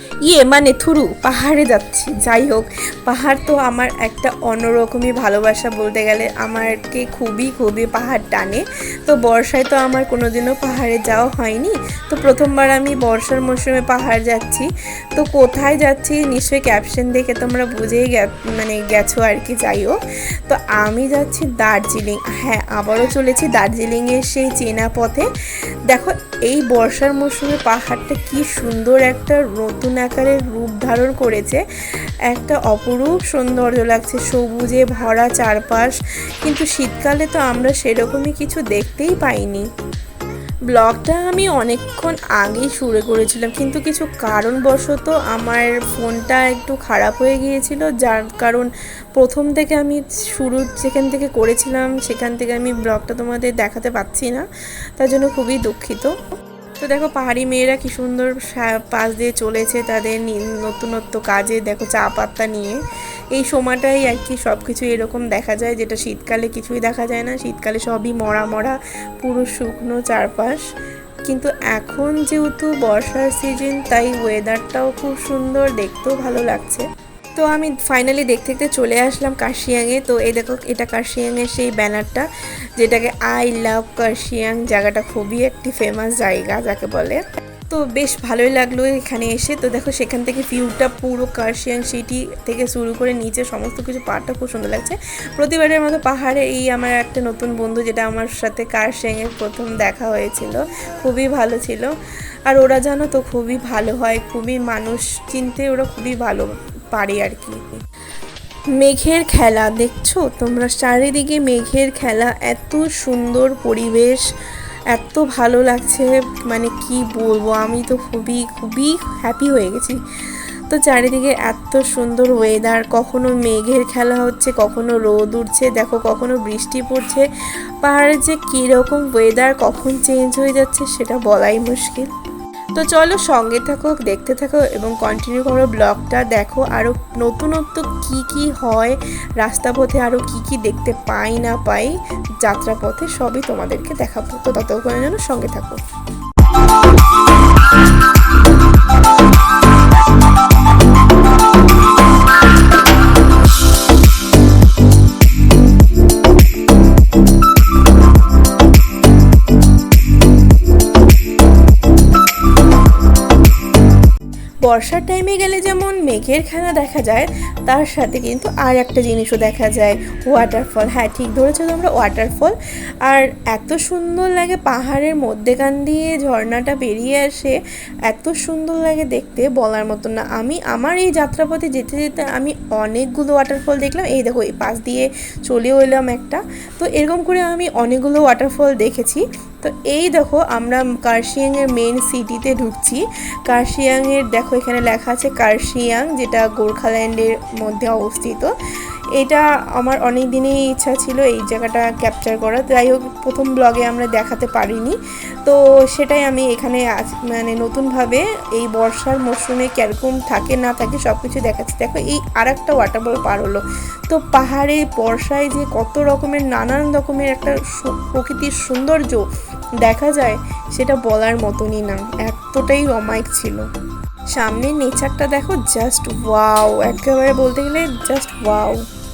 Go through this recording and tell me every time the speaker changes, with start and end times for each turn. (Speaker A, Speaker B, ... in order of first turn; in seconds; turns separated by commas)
Speaker A: 0.3-25.3, Speaker A: 25.9-31.6, Speaker A: 32.3-39.7, Speaker A: 40.7-56.2, Speaker A: 56.8-62.8, Speaker A: 63.3-70.7, Speaker A: 71.3-101.9, Speaker A: 102.5-107.6, Speaker A: 108.8-114.3, Speaker A: 114.9-120.0, Speaker A: 120.7-127.3, Speaker A: 127.8-132.1, Speaker A: 132.8-145.8, Speaker A: 164.6-177.6, Speaker A: 178.1-198.5, Speaker A: 199.2-219.2, Speaker A: 219.8-223.7, Speaker A: 224.3-228.8